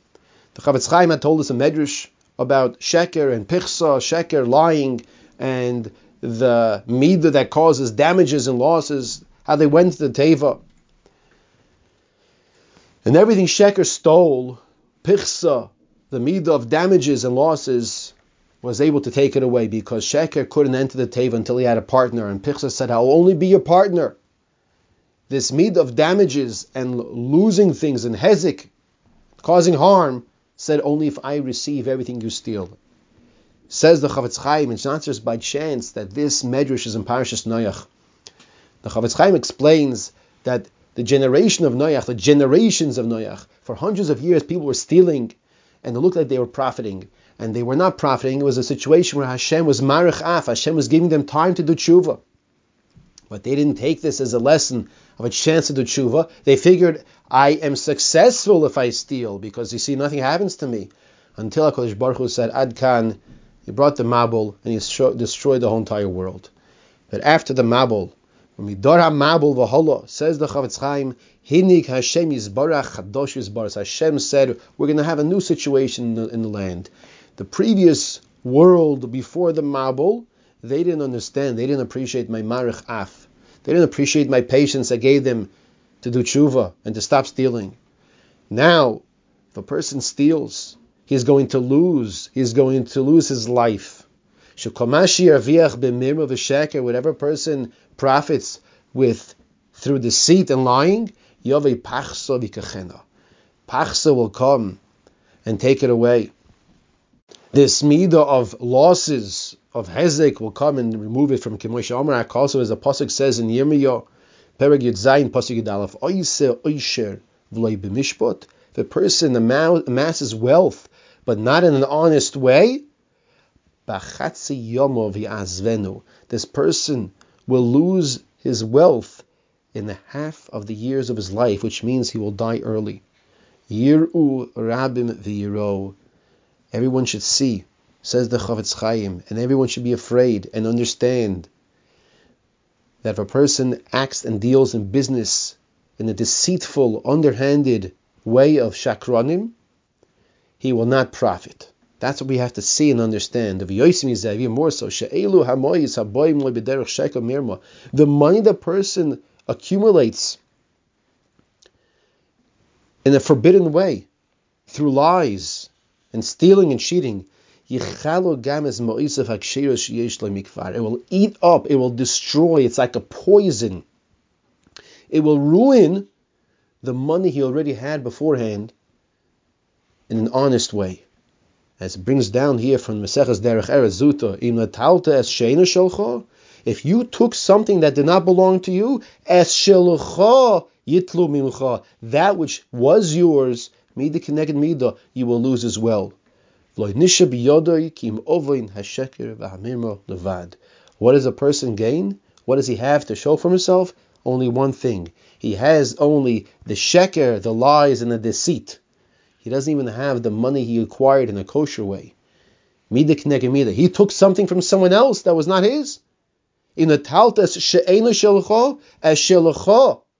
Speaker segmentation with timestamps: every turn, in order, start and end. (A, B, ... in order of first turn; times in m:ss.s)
0:00.6-0:10.6 A
0:13.0-0:24.2 A
0:25.3-0:28.7 A
0:29.4-0:32.8 A
0:33.7-0:37.9 A
0:38.8-0:52.2 A
0:53.3-1:06.5 A
1:07.1-1:25.5 A
1:26.0-1:27.8 A
1:28.5-1:34.1 A
1:34.6-1:43.0 A
1:43.7-1:44.8 A
1:45.4-1:46.3 A
1:47.5-1:54.1 A
1:54.6-2:02.8 A
2:03.9-2:13.0 A
2:13.7-2:16.0 A
2:16.7-2:21.5 A
2:23.0-2:29.5 A
2:30.6-2:40.4 A
2:43.0-2:44.1 A
2:44.7-2:53.8 A
2:55.1-2:56.1 A
2:56.8-2:58.7 A
3:00.1-3:01.0 A
3:01.8-3:16.2 A
3:16.8-3:28.8 A
3:29.4-3:32.1 A
3:32.9-3:36.0 A
3:36.8-3:40.0 A